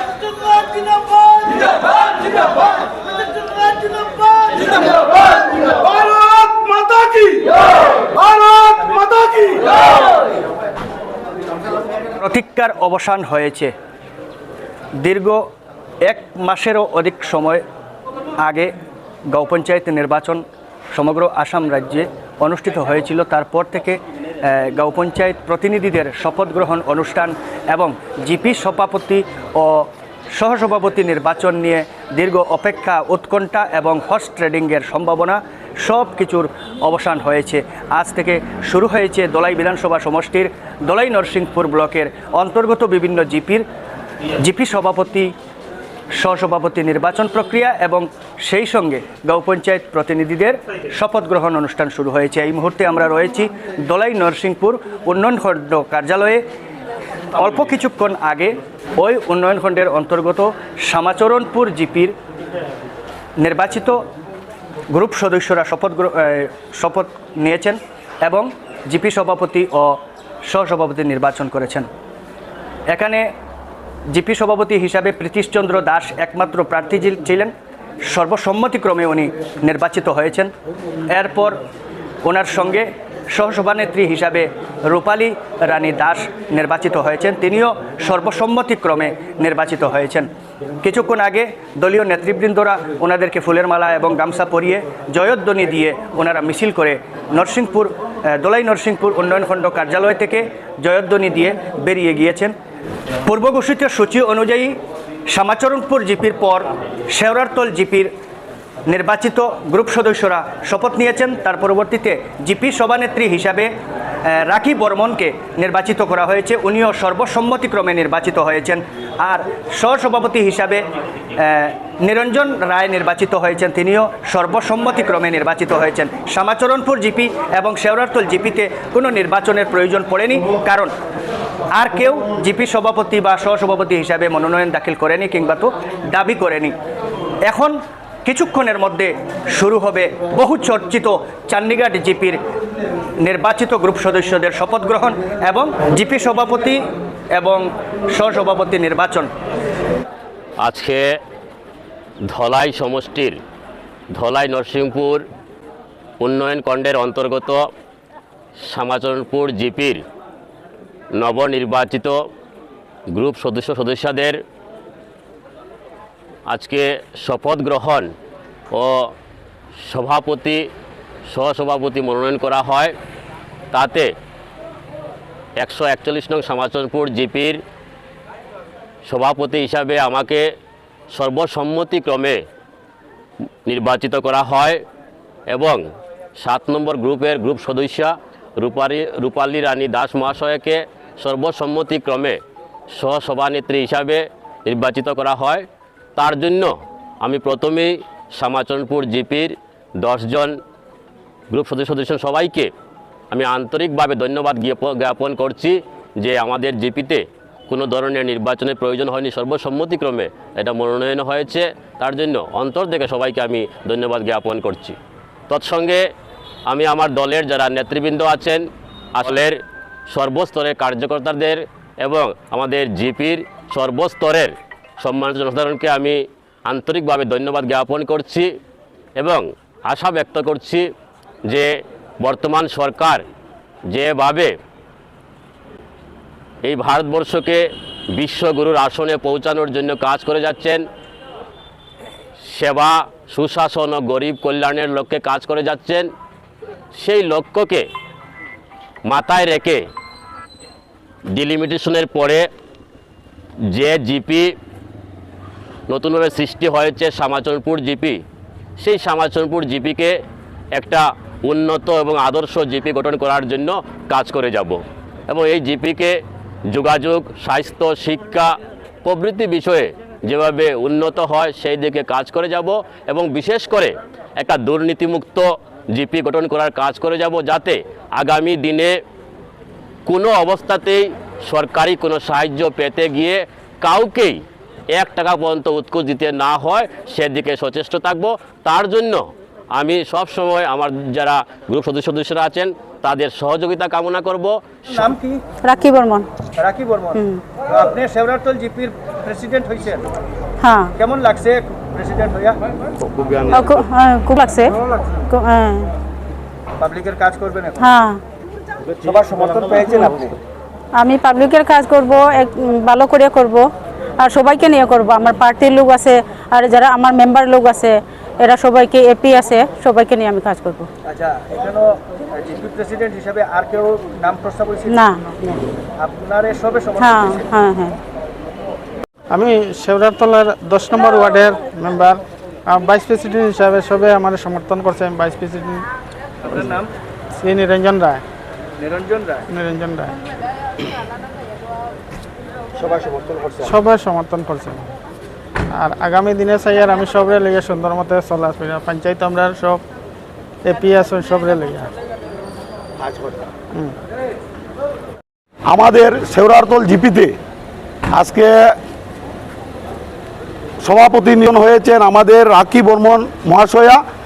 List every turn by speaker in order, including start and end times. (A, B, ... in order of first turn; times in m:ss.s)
0:00.7-0:01.6 A
0:05.6-0:09.8 A
0:12.2-0:13.7 B
0:15.0-0:15.5 B
0:16.1-0:17.6 B
0:18.4-0:18.7 B
0:19.3-0:43.6 B
0:44.4-0:45.3 B
0:46.2-0:56.4 B
0:57.4-1:02.2 B
1:03.4-1:04.0 B
1:04.9-1:11.9 B
1:12.9-1:13.3 B
1:14.1-1:17.5 B
1:18.0-1:20.5 B
1:21.1-1:21.6 B
1:22.2-1:30.3 B
1:30.8-1:42.5 B
1:43.2-1:44.8 B
1:45.3-1:48.1 B
1:48.9-1:53.7 B
1:54.3-2:00.9 B
2:01.4-2:10.9 B
2:11.8-2:16.8 B
2:17.4-2:22.4 B
2:23.2-2:26.8 B
2:27.4-2:29.3 B
2:30.6-2:31.0 C
2:32.3-2:33.4 C
2:34.1-2:35.2 C
2:36.2-2:37.6 C
2:38.6-2:40.0 C
2:41.1-2:42.2 C
2:43.1-2:44.4 C
2:46.5-2:48.1 C
2:48.7-2:49.1 C
2:49.9-2:50.6 C
2:51.3-2:52.9 C
2:53.7-2:54.1 C
2:55.6-2:57.6 C
2:59.0-3:00.4 C
3:01.1-3:02.4 C
3:03.6-3:04.8 C
3:05.5-3:05.8 C
3:06.4-3:12.4 C
3:12.9-3:20.5 C
3:21.5-3:22.7 C
3:23.3-3:35.0 C
3:35.5-3:36.0 C
3:36.7-3:38.6 C
3:39.1-3:39.6 C
3:40.1-3:48.5 C
3:49.2-3:50.8 C
3:52.2-3:53.2 C
3:53.9-3:54.5 C
3:56.6-3:57.6 C
3:58.1-4:00.8 C
4:02.4-4:06.1 C
4:06.9-4:07.8 C
4:09.1-4:09.9 C
4:11.3-4:12.4 C
4:13.7-4:14.5 C
4:15.9-4:18.2 C
4:18.8-4:20.1 C
4:20.7-4:26.1 C
4:26.7-4:28.5 C
4:29.0-4:38.9 C
4:40.0-4:44.4 C
4:44.9-4:49.2 C
4:49.8-4:55.0 C
4:55.1-4:55.4 B
4:55.6-4:56.3 D
4:56.6-5:00.1 B
4:57.1-4:57.4 D
5:00.6-5:00.9 D
5:00.9-5:02.6 B
5:03.4-5:04.8 D
5:05.3-5:05.9 D
5:06.8-5:07.8 B
5:07.8-5:08.2 D
5:09.0-5:10.3 B
5:11.0-5:13.6 D
5:14.2-5:20.9 D
5:21.0-5:25.0 B
5:24.9-5:25.6 D
5:26.0-5:27.4 B
5:27.0-5:28.0 D
5:29.3-5:35.8 E
5:36.5-5:36.9 B
5:37.4-5:38.2 E
5:38.8-5:39.4 B
5:39.5-5:40.2 E
5:43.0-5:43.3 B
5:43.6-5:44.9 E
5:45.7-5:49.8 E
5:50.6-5:51.9 E
5:55.7-5:57.3 A
5:58.1-5:58.5 A
6:00.8-6:04.0 A